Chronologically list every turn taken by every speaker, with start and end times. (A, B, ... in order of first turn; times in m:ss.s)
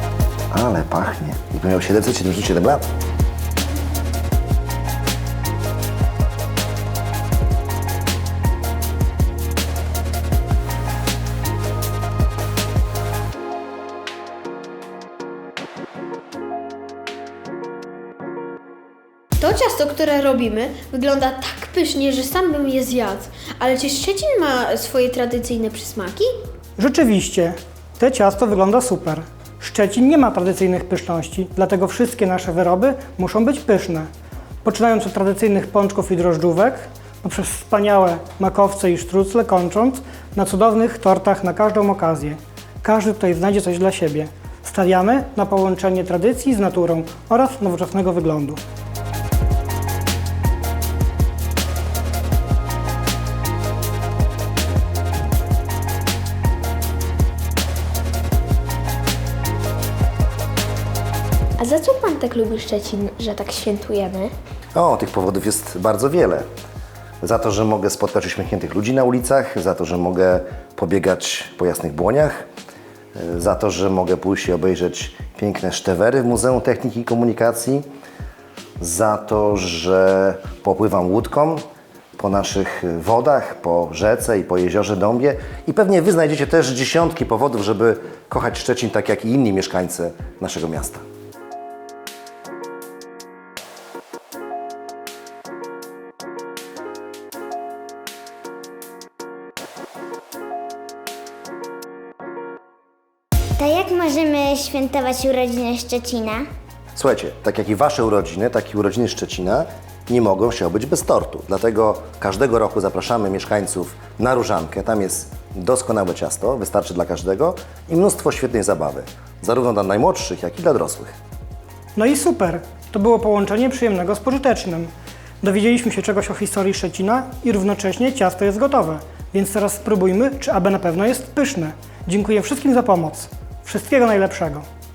0:00.5-0:02.8 A
0:19.4-0:26.3 B
0:26.8-0:34.1 C
0:34.6-0:48.6 C
1:01.6-1:04.3 D
1:04.7-1:06.5 A
1:07.2-1:12.5 A
1:13.1-1:17.9 A
1:18.8-1:21.6 A
1:22.2-1:31.0 A
1:43.6-1:46.4 E
1:46.9-2:01.1 A
2:01.9-2:14.6 C